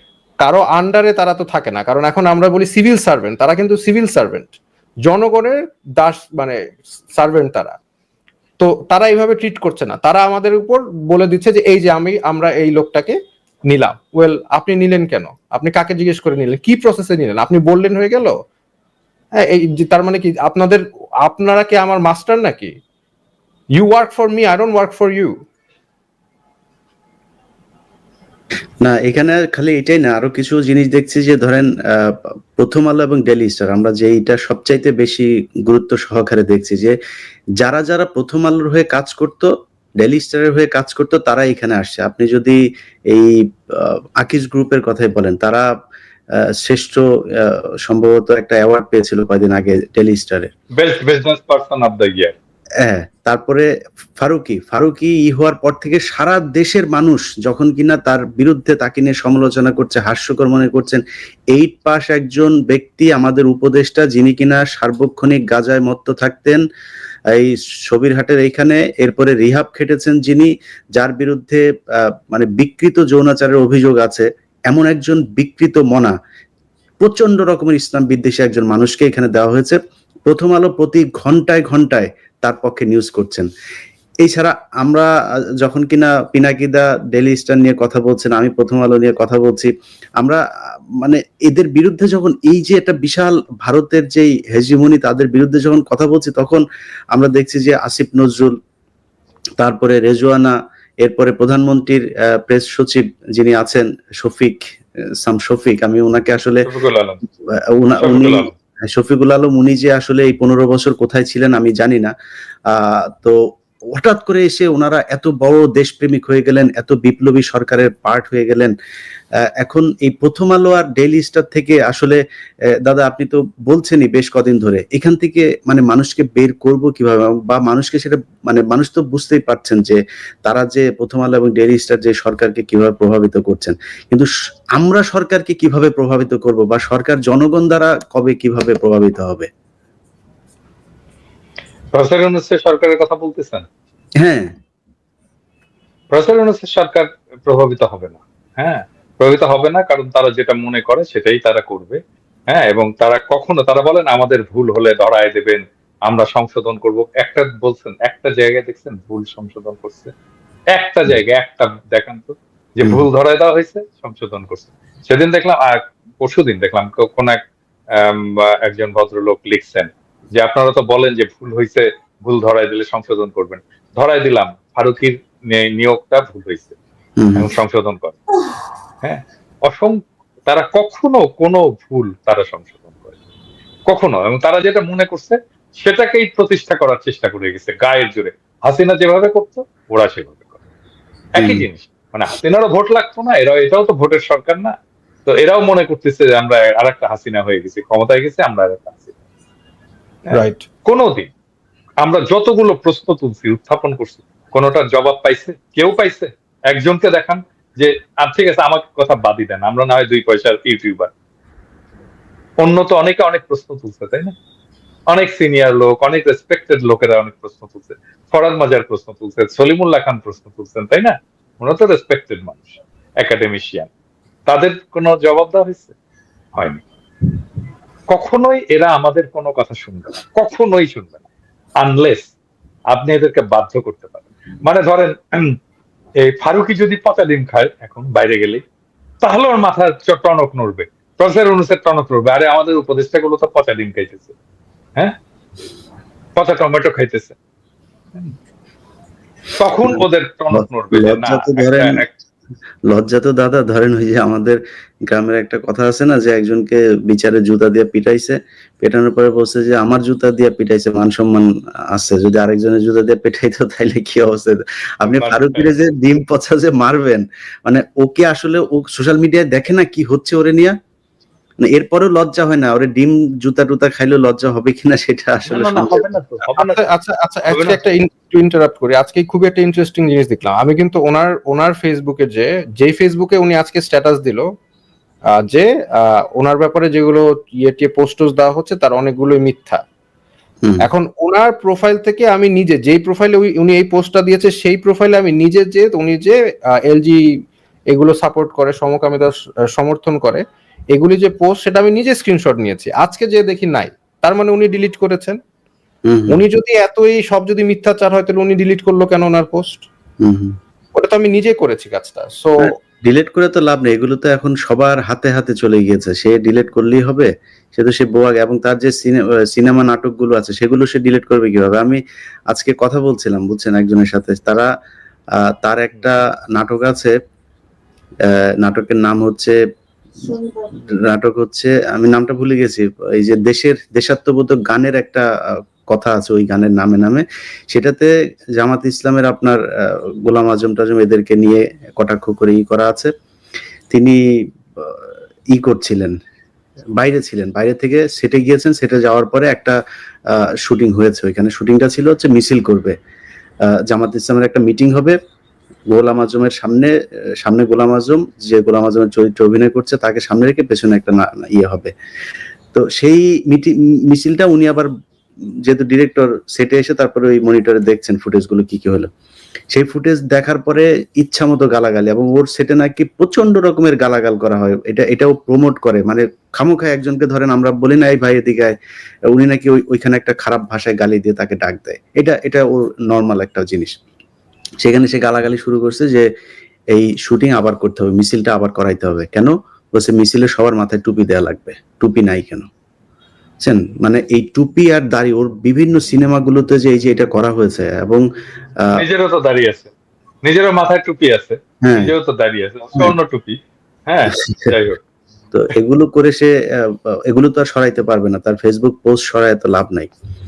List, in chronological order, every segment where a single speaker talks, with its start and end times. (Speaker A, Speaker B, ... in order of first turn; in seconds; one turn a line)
Speaker A: 0.4-4.6
Speaker A: 5.1-6.6
Speaker A: 7.2-7.8
Speaker A: 8.6-13.2
Speaker A: 13.7-18.4
Speaker A: 19.4-22.8
Speaker A: 23.8-25.4
Speaker B: 28.8-37.0
Speaker B: 37.6-42.6
Speaker B: 43.1-45.7
Speaker B: 46.4-50.5
Speaker C: 50.8-52.3
Speaker B: 52.8-53.7
Speaker B: 54.2-66.6
Speaker B: 67.3-76.2
Speaker B: 77.0-83.5
Speaker B: 84.2-85.1
Speaker B: 85.6-90.4
Speaker B: 91.0-98.5
Speaker B: 99.6-104.6
Speaker B: 105.2-106.7
Speaker C: 106.7-107.2
Speaker B: 107.6-112.1
Speaker C: 108.0-108.5
Speaker B: 112.7-113.4
Speaker B: 113.9-118.7
Speaker B: 119.6-122.2
Speaker B: 122.8-139.5
Speaker C: 141.9-143.7
Speaker B: 144.2-144.5
Speaker C: 146.1-160.1
Speaker C: 160.8-167.4
Speaker C: 167.9-176.8
Speaker B: 177.2-177.5
Speaker C: 177.3-178.2
Speaker C: 179.0-183.1
Speaker C: 183.9-190.6
Speaker C: 191.4-194.8
Speaker B: 191.4-191.7
Speaker C: 195.3-199.1
Speaker C: 200.3-201.3
Speaker A: 200.3-200.7
Speaker C: 202.0-211.1
Speaker C: 212.6-214.3
Speaker C: 215.1-223.9
Speaker C: 224.5-225.9
Speaker C: 226.6-226.8
Speaker C: 228.1-231.2
Speaker C: 231.8-232.3
Speaker C: 232.9-235.6
Speaker C: 236.2-238.6
Speaker C: 239.2-244.3
Speaker C: 246.4-247.4
Speaker C: 249.6-252.1
Speaker B: 250.5-252.0
Speaker B: 252.9-270.8
Speaker C: 265.1-265.8
Speaker B: 271.6-276.1
Speaker C: 275.5-276.8
Speaker A: 276.6-284.5
Speaker C: 277.5-277.8
Speaker A: 285.3-289.8
Speaker A: 290.8-297.4
Speaker A: 297.9-305.4
Speaker B: 306.1-306.4
Speaker A: 306.3-309.9
Speaker B: 310.2-310.6
Speaker A: 311.0-312.7
Speaker B: 312.6-324.7
Speaker B: 325.4-327.1
Speaker B: 328.3-329.6
Speaker B: 330.2-335.3
Speaker B: 335.9-343.1
Speaker B: 343.9-344.2
Speaker B: 344.8-346.2
Speaker B: 347.0-353.0
Speaker B: 353.7-355.2
Speaker B: 355.9-361.9
Speaker B: 362.7-364.9
Speaker B: 365.6-369.1
Speaker B: 369.7-378.8
Speaker B: 379.3-384.0
Speaker B: 384.8-386.3
Speaker B: 386.9-392.7
Speaker B: 393.6-398.3
Speaker B: 398.8-399.0
Speaker C: 398.9-399.9
Speaker C: 400.4-405.0
Speaker B: 401.8-402.1
Speaker B: 404.4-404.7
Speaker B: 405.5-410.1